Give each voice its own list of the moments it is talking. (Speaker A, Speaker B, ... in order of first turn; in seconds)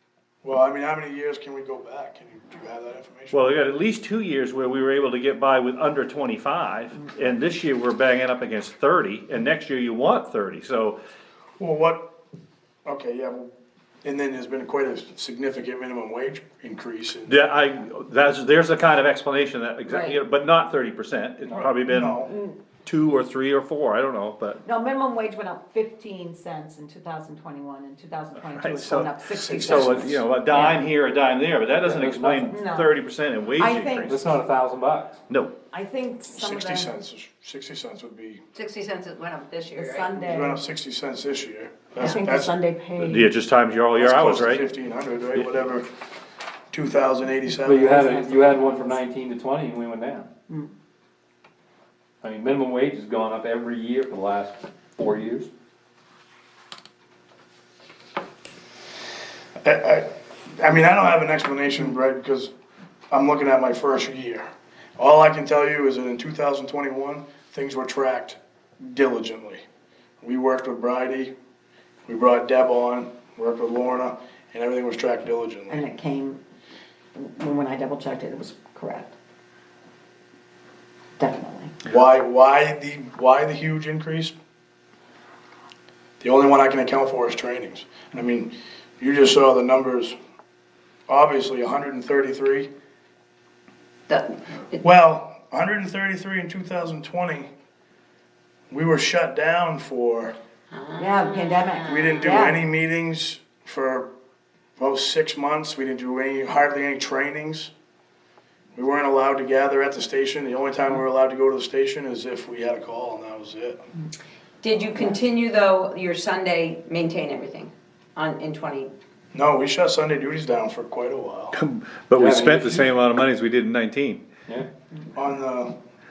Speaker A: 0.4-3.4, 11.6-12.1, 12.8-13.5, 14.0-17.5, 21.5-22.4, 29.4-30.2, 36.3-38.4, 40.2-42.5, 44.0-45.9, 46.7-48.0, 59.6-62.5, 63.1-69.6, 70.2-71.3, 72.1-75.8, 81.8-84.3, 86.2-90.2, 91.1-92.7, 94.8-97.5, 98.7-100.3, 101.8-104.1, 104.8-107.7, 108.7-113.8, 119.3-121.5, 125.1-125.7
Speaker B: 3.3-11.0, 17.3-22.3, 22.8-24.6, 28.4-34.2, 35.3-35.5, 43.0-44.6, 121.5-124.2
Speaker C: 24.6-30.8, 32.5-32.9, 33.5-34.2, 35.7-36.9, 39.7-40.6, 42.0-43.3, 47.7-49.0, 75.7-76.4, 77.2-79.1, 81.2-81.8, 101.0-102.6
Speaker D: 31.8-32.6, 34.0-35.2, 47.6-50.3, 52.2-55.5, 122.1-122.9
Speaker E: 38.5-40.0, 94.1-94.8, 100.7-101.1, 114.6-118.9